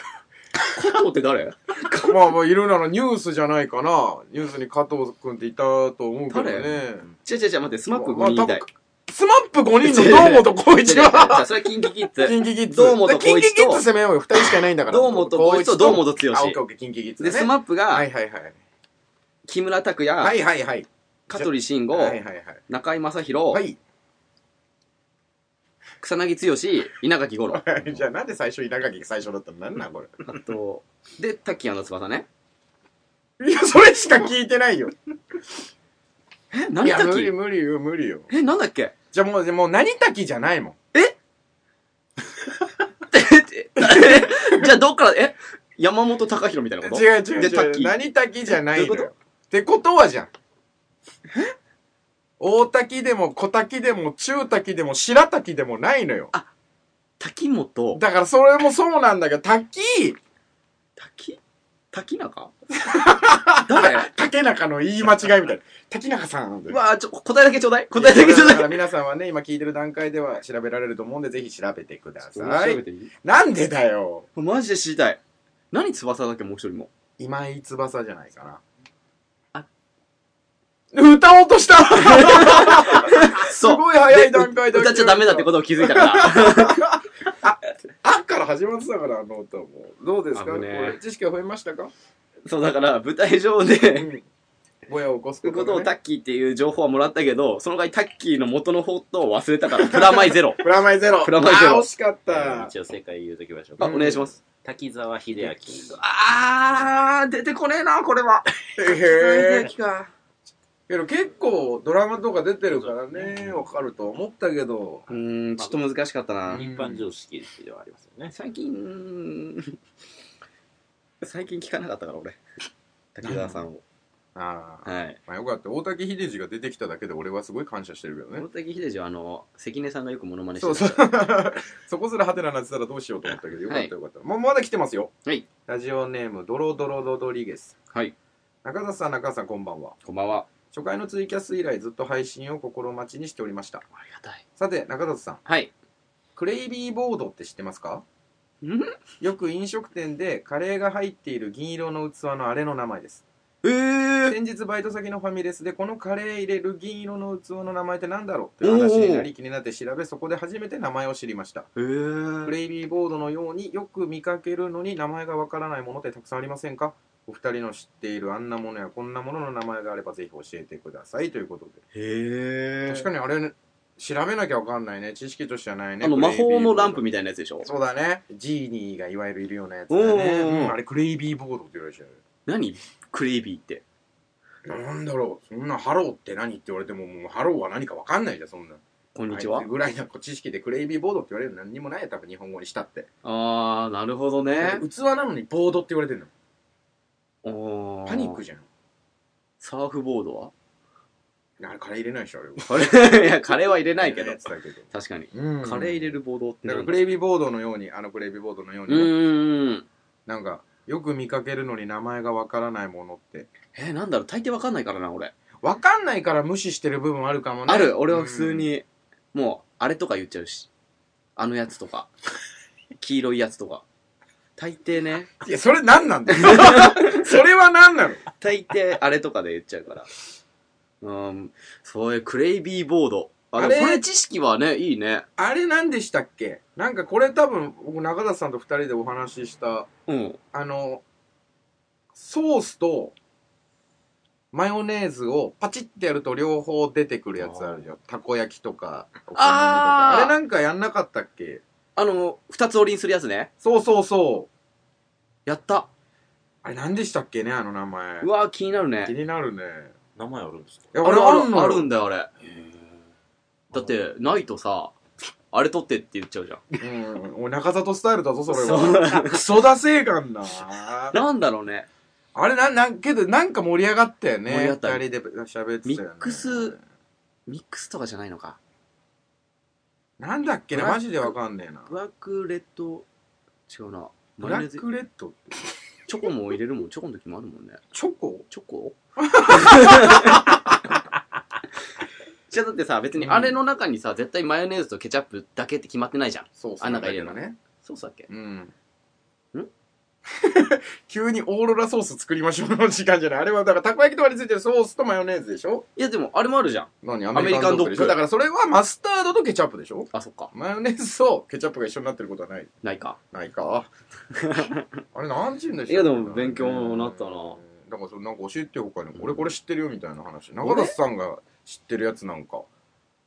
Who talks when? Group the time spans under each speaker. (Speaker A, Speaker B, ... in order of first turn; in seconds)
Speaker A: 0.7-2.2, 6.3-8.6, 9.8-16.6, 17.2-18.1, 19.5-20.4, 21.3-23.6, 26.0-27.7, 30.2-32.3, 36.5-37.3, 38.3-38.9, 43.1-48.0, 48.6-49.1, 57.2-58.0, 61.0-61.4, 61.9-62.5, 63.6-64.1, 66.7-68.8, 72.3-73.1, 74.3-75.2, 75.7-76.9, 81.9-86.9, 90.3-91.0, 92.5-94.1, 95.4-100.7, 101.2-101.9, 103.8-104.4, 105.9-110.1, 115.1-116.7, 118.3-119.8, 121.2-122.4, 123.1-123.8, 124.8-125.2, 128.3-131.2, 140.0-140.5, 144.0-144.4, 145.4-145.7, 148.6-148.9, 153.6-154.3, 158.6-159.3, 161.8-162.5, 171.9-173.1, 176.0-177.7, 179.9-180.8, 182.4-183.8, 189.1-189.7, 193.2-194.8, 197.4-198.4, 199.6-200.5, 202.6-207.0, 208.9-209.8, 213.7-215.3, 217.7-220.7, 221.3-222.1, 223.0-223.8, 224.6-225.3, 226.3-227.3, 228.4-230.1, 231.0-235.2, 240.1-240.4, 249.3-250.3, 251.9-253.5, 255.4-255.9, 258.2-259.1, 261.0-262.7, 263.7-264.9, 265.5-266.6, 268.5-269.4, 271.1-271.9, 274.5-275.0, 275.8-276.8, 277.5-278.6, 280.7-281.3, 281.9-283.1, 283.7-284.8, 286.1-287.8, 288.5-290.6, 292.5-298.3, 305.9-308.2, 310.1-310.5, 312.8-313.2, 314.3-314.9, 315.9-317.6, 320.6-320.9
Speaker B: 2.0-7.1, 7.9-11.5, 12.2-18.6, 20.2-22.6, 23.5-23.8, 27.5-30.1, 33.4-35.0, 36.8-38.3, 39.1-40.8, 43.8-44.6, 46.8-50.3, 52.4-56.3, 57.9-60.2, 62.8-66.8, 67.9-74.2, 77.2-78.6, 80.9-91.9, 94.0-94.2, 94.8-95.9, 99.9-102.7, 103.8-104.3, 108.8-109.7, 110.9-115.0, 116.5-117.0, 123.2-123.6, 124.3-128.4, 130.6-135.1, 135.7-137.8, 138.6-139.9, 140.7-143.8, 144.6-145.4, 146.3-148.0, 149.2-153.2, 154.3-161.7, 162.4-171.8, 172.9-177.0, 177.6-182.2, 184.6-193.1, 194.6-196.3, 198.1-198.7, 201.6-203.2, 204.0-209.1, 210.3-213.5, 215.6-218.7, 225.4-228.2, 233.6-234.0, 235.4-239.9, 240.5-241.0, 242.1-243.1, 244.5-251.6, 253.6-254.5, 256.6-258.3, 259.0-259.9, 260.9-261.9, 266.8-271.2, 272.3-276.8, 280.2-281.9, 284.4-285.7, 287.9-288.4, 289.2-291.0, 293.2-293.6, 296.6-297.6, 298.3-298.7, 300.3-305.9, 307.0-312.7, 313.3-313.9, 315.1-322.7
Speaker C: 102.3-106.0, 112.7-113.7, 115.1-115.8, 116.5-118.3, 260.1-260.9